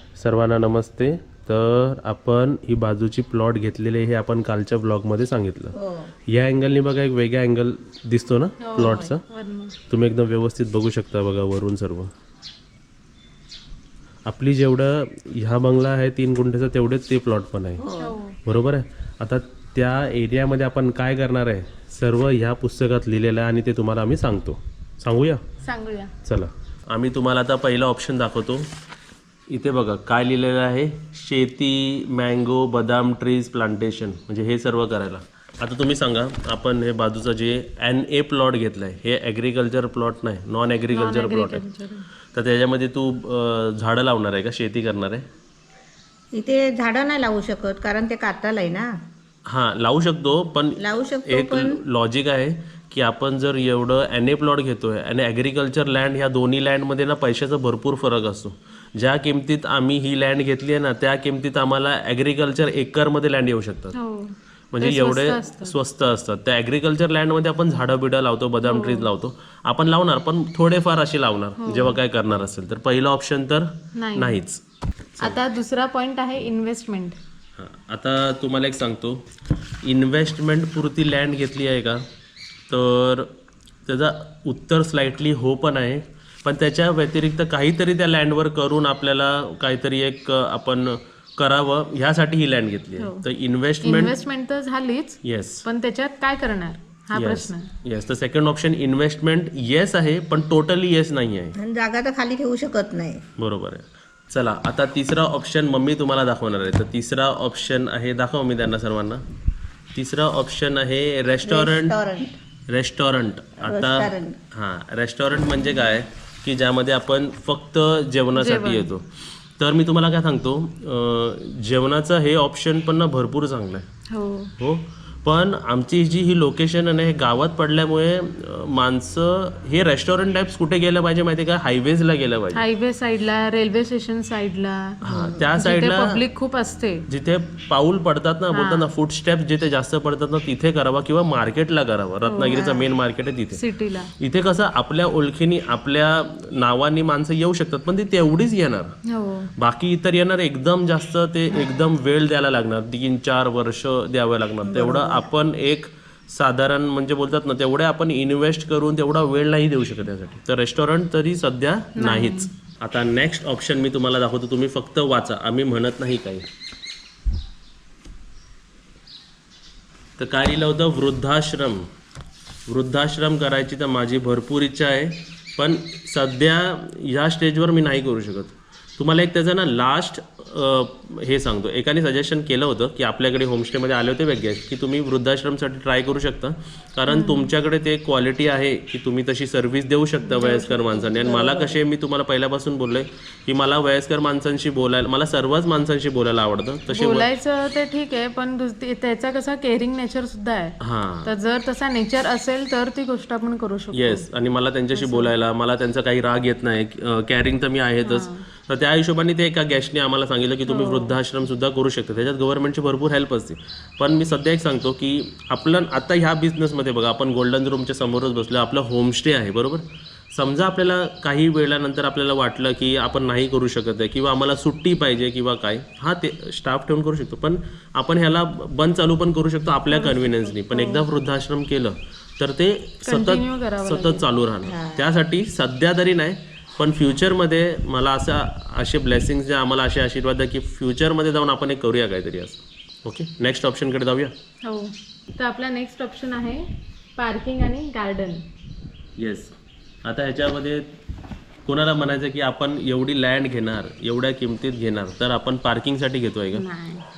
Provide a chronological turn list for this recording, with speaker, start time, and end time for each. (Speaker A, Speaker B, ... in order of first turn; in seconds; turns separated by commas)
Speaker A: 0.2-5.7, Speaker B: 5.7-6.1, Speaker A: 6.3-9.2, Speaker C: 8.6-9.8, Speaker A: 9.9-12.1, Speaker A: 14.2-17.8, Speaker B: 17.8-18.1, Speaker C: 18.0-18.4, Speaker A: 18.4-25.4, Speaker C: 25.6-26.1, Speaker A: 26.2-28.7, Speaker A: 29.5-41.6, Speaker C: 40.9-42.1, Speaker A: 42.3-45.2, Speaker B: 46.3-48.9, Speaker A: 49.5-63.9, Speaker B: 50.8-51.8, Speaker C: 63.9-65.8, Speaker A: 64.7-74.6, Speaker C: 68.6-69.1, Speaker C: 71.6-72.0, Speaker C: 74.0-74.4, Speaker C: 75.2-77.2, Speaker A: 77.6-79.3, Speaker A: 79.8-82.0, Speaker A: 82.7-83.3, Speaker A: 83.8-94.1, Speaker C: 93.0-93.2, Speaker C: 93.8-97.7, Speaker A: 95.2-95.7, Speaker A: 97.1-101.5, Speaker B: 101.5-103.2, Speaker A: 103.4-109.2, Speaker A: 109.9-112.0, Speaker B: 111.4-112.4, Speaker A: 112.7-119.0, Speaker B: 113.6-114.4, Speaker C: 118.4-118.9, Speaker A: 119.6-123.8, Speaker C: 124.1-124.5, Speaker A: 124.6-132.6, Speaker C: 132.5-135.0, Speaker A: 135.0-136.2, Speaker B: 135.1-135.5, Speaker C: 135.6-137.1, Speaker A: 137.1-143.6, Speaker C: 138.5-138.9, Speaker C: 142.3-142.8, Speaker C: 143.5-144.1, Speaker A: 144.2-148.9, Speaker C: 149.1-149.5, Speaker A: 149.6-166.5, Speaker B: 154.6-155.2, Speaker C: 161.9-162.5, Speaker A: 170.2-171.9, Speaker A: 172.7-197.3, Speaker C: 187.1-187.5, Speaker C: 190.3-191.5, Speaker B: 191.2-191.7, Speaker C: 196.9-204.2, Speaker A: 200.8-201.3, Speaker A: 203.9-244.3, Speaker C: 204.9-205.3, Speaker C: 208.0-208.4, Speaker C: 210.7-211.2, Speaker C: 229.9-231.0, Speaker C: 233.0-234.3, Speaker B: 234.7-235.1, Speaker C: 244.6-246.6, Speaker C: 247.2-248.4, Speaker A: 249.2-249.5, Speaker A: 250.0-250.8, Speaker A: 251.7-256.6, Speaker C: 256.5-257.0